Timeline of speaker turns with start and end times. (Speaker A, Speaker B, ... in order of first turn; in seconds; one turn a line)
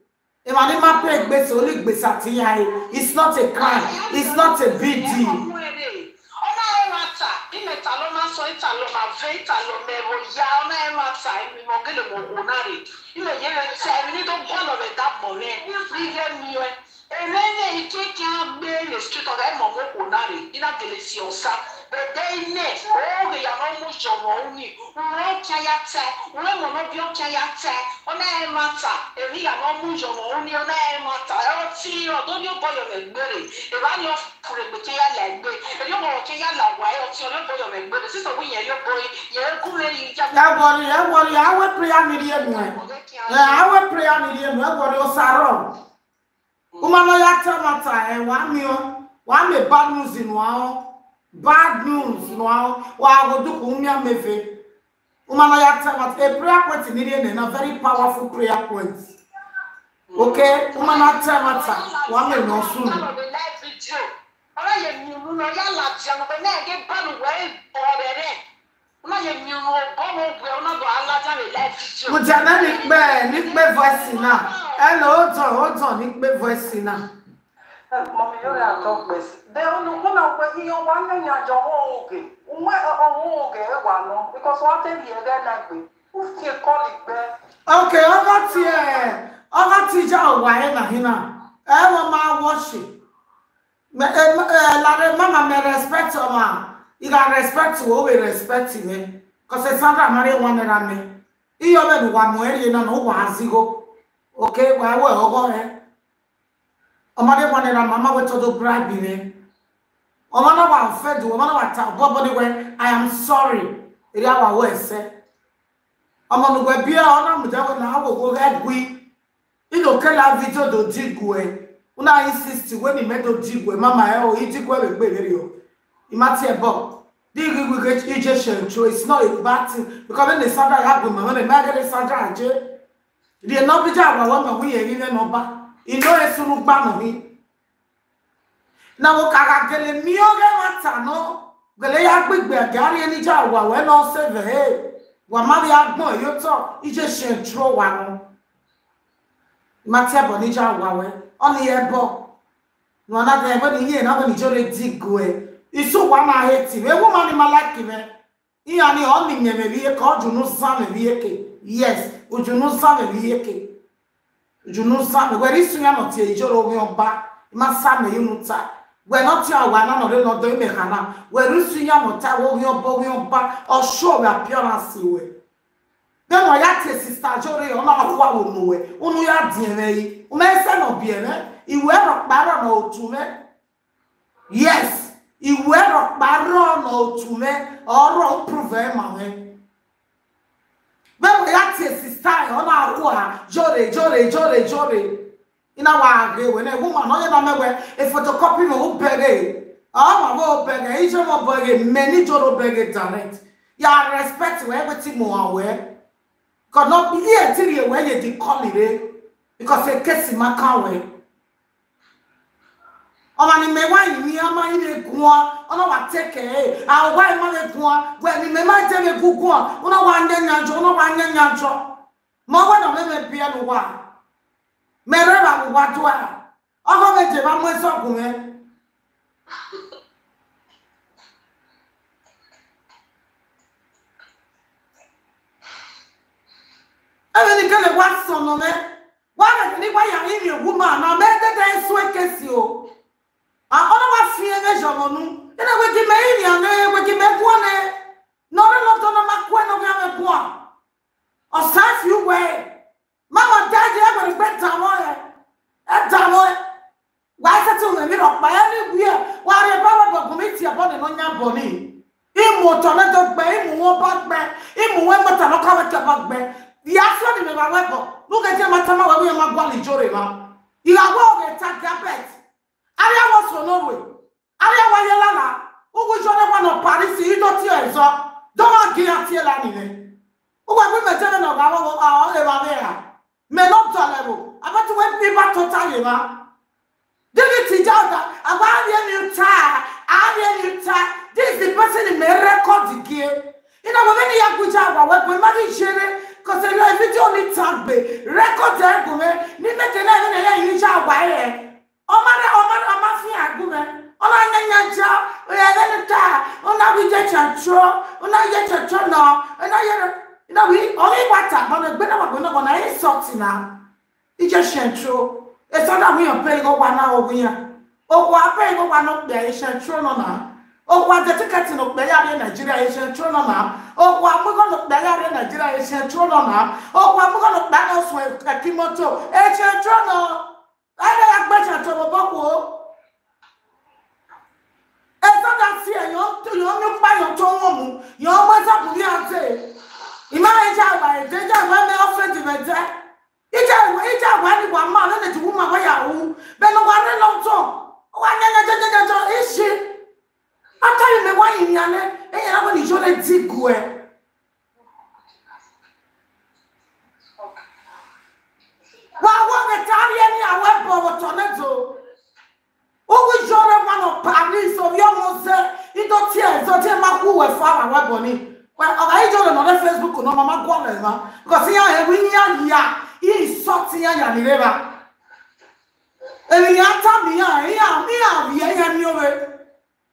Speaker A: 0.5-5.4
Speaker B: 0.8-1.4
Speaker B: 3.6-41.1
Speaker A: 40.3-42.8
Speaker B: 42.2-43.7
Speaker A: 43.3-45.7
Speaker B: 46.7-47.0
Speaker A: 46.8-54.6
Speaker A: 55.3-59.1
Speaker B: 60.1-68.4
Speaker A: 60.2-63.0
Speaker B: 69.0-74.9
Speaker A: 72.1-77.1
Speaker C: 77.9-87.3
Speaker B: 78.5-79.1
Speaker A: 87.7-93.0
Speaker A: 93.9-105.8
Speaker A: 107.2-109.4
Speaker A: 110.3-115.1
Speaker A: 116.3-119.1
Speaker A: 119.7-125.6
Speaker A: 126.1-132.6
Speaker A: 133.4-137.3
Speaker A: 139.0-148.3
Speaker A: 149.8-152.3
Speaker A: 153.1-158.1
Speaker A: 158.7-163.7
Speaker A: 164.6-175.3
Speaker A: 176.3-183.4
Speaker A: 184.5-189.6
Speaker A: 191.2-205.9
Speaker A: 206.7-211.1
Speaker A: 213.4-224.1
Speaker A: 225.1-228.7
Speaker A: 237.3-242.9
Speaker A: 243.7-248.0
Speaker A: 248.5-250.7
Speaker A: 251.5-252.8
Speaker A: 253.3-255.3
Speaker A: 255.9-256.6
Speaker A: 257.4-272.4
Speaker A: 273.0-280.1
Speaker A: 280.7-286.5
Speaker A: 287.3-313.8
Speaker A: 314.4-332.9
Speaker A: 335.2-339.8
Speaker A: 340.3-342.9
Speaker A: 343.5-350.0
Speaker A: 350.8-354.1
Speaker A: 359.2-362.0
Speaker A: 363.1-375.0
Speaker A: 376.5-379.6